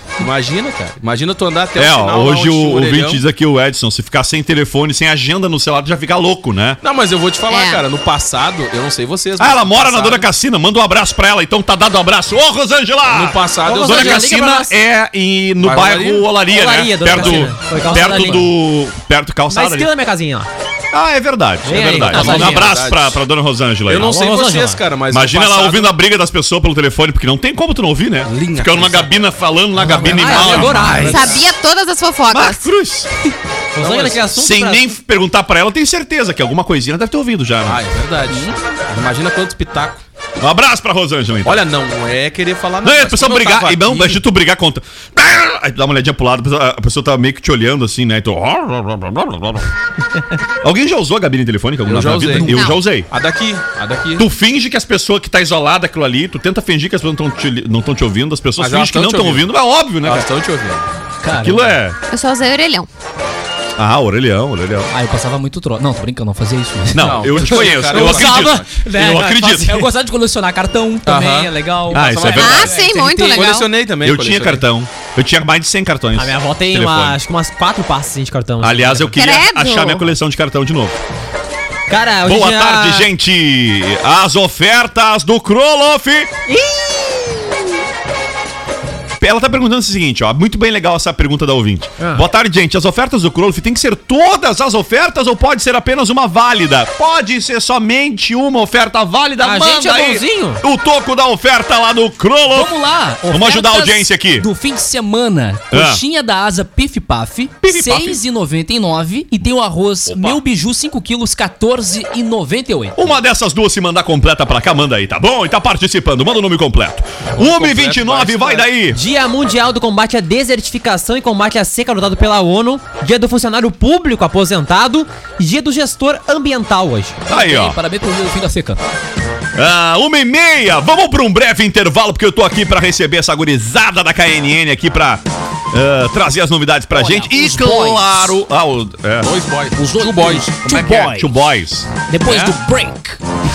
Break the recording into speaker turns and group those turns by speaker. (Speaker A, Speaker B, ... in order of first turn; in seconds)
Speaker A: 0.2-3.2, 6.8-10.3, 13.1-14.4, 15.6-16.3, 17.1-17.4, 21.8-23.2, 23.9-26.0, 28.3-29.1, 30.2-31.2, 33.8-34.2, 37.6-40.0, 41.4-44.2, 51.9-54.2, 58.6-59.5, 60.0-60.9, 66.9-68.7, 71.0-72.5, 73.2-74.6, 117.3-118.6, 139.2-140.5
Speaker B: 1.8-6.8, 9.4-19.9, 20.9-24.1, 25.1-31.4, 32.3-33.1, 34.3-37.8, 40.4-41.6, 42.8-49.7, 50.6-53.1, 54.2-60.3, 61.3-62.0, 63.8-64.9, 66.9-69.9, 71.9-72.8, 74.0-77.2, 78.6-81.0, 82.2-86.3, 89.2-102.7, 103.3-104.5, 105.7-106.0, 107.7-108.2, 110.0-110.4, 112.9-119.0, 127.3-127.8, 129.6-139.3, 140.6-142.6
Speaker C: 7.5-7.8, 31.0-32.6, 52.4-52.8, 62.1-62.9, 72.3-73.7, 79.1-80.0
Speaker D: 13.6-14.7, 16.5-18.5, 19.5-20.5, 21.6-22.7, 24.0-24.8, 29.8-31.3, 33.7-34.9, 76.1-79.2, 81.9-83.1, 86.5-87.7, 92.0-92.2, 99.4-100.6, 118.9-127.2
Speaker E: 28.3-28.7, 61.2-61.7, 64.9-73.5, 102.5-113.1, 127.3-128.8, 136.9-138.3, 139.7-141.3, 142.1-143.2